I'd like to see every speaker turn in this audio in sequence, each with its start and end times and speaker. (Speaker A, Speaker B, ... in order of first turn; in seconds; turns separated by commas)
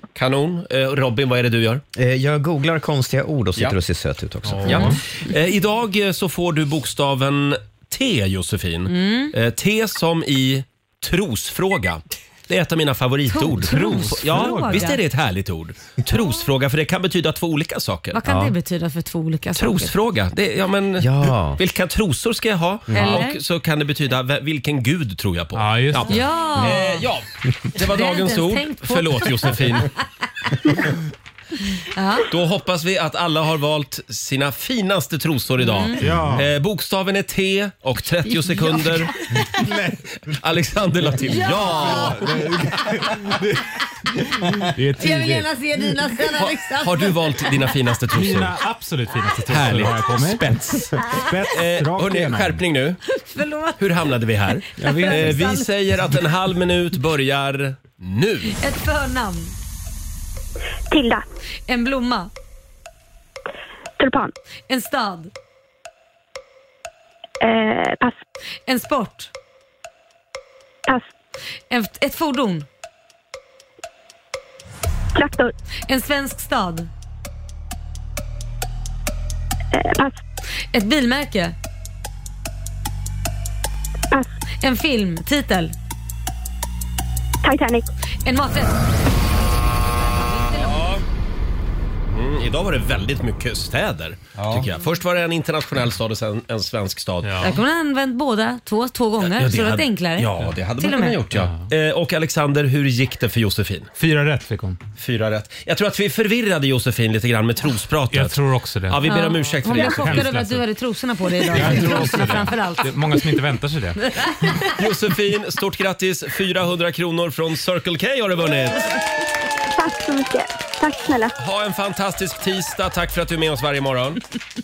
Speaker A: 0.1-1.8, Speaker B: 1.9-4.9, Speaker C: 4.5-5.0, Speaker A: 4.6-18.2, Speaker D: 8.9-9.3, Speaker D: 13.3-15.0, Speaker C: 13.7-14.9, Speaker D: 18.1-19.9, Speaker B: 18.2-18.5, Speaker A: 19.6-29.9, Speaker B: 21.0-21.6, Speaker B: 22.9-23.2, Speaker D: 22.9-23.4, Speaker C: 25.5-26.2, Speaker D: 26.1-27.0, Speaker D: 27.8-29.9, Speaker D: 31.9-32.3, Speaker A: 32.2-39.1, Speaker D: 35.6-36.0, Speaker C: 36.0-36.5, Speaker D: 38.5-39.0, Speaker A: 40.3-42.3, Speaker D: 41.2-42.3, Speaker C: 42.0-42.7, Speaker C: 44.7-45.5, Speaker D: 45.0-47.1, Speaker A: 46.8-48.5, Speaker C: 48.1-52.6, Speaker A: 49.5-50.9, Speaker A: 51.5-53.0, Speaker D: 53.2-53.8, Speaker A: 53.8-58.6, Speaker C: 54.8-55.5, Speaker D: 54.8-55.7, Speaker D: 58.5-59.5, Speaker E: 60.9-61.2, Speaker D: 61.7-62.3, Speaker E: 64.0-64.3, Speaker D: 64.7-65.3, Speaker E: 67.4-68.2, Speaker D: 68.7-69.3, Speaker D: 71.7-72.7, Speaker E: 75.1-75.5, Speaker D: 75.9-76.9, Speaker E: 79.7-80.2, Speaker D: 80.7-81.5, Speaker D: 84.6-85.7, Speaker E: 87.4-87.9, Speaker D: 88.2-88.8, Speaker D: 90.0-90.9, Speaker A: 90.6-91.0, Speaker A: 92.1-97.5, Speaker C: 97.2-97.6, Speaker D: 97.4-101.2, Speaker A: 99.2-103.9, Speaker C: 101.3-101.7, Speaker C: 104.0-104.8, Speaker A: 105.0-110.3, Speaker C: 108.1-110.6, Speaker D: 109.0-113.2, Speaker C: 111.5-114.1, Speaker D: 114.1-114.6, Speaker A: 114.7-119.0, Speaker E: 119.7-121.3, Speaker A: 121.4-124.2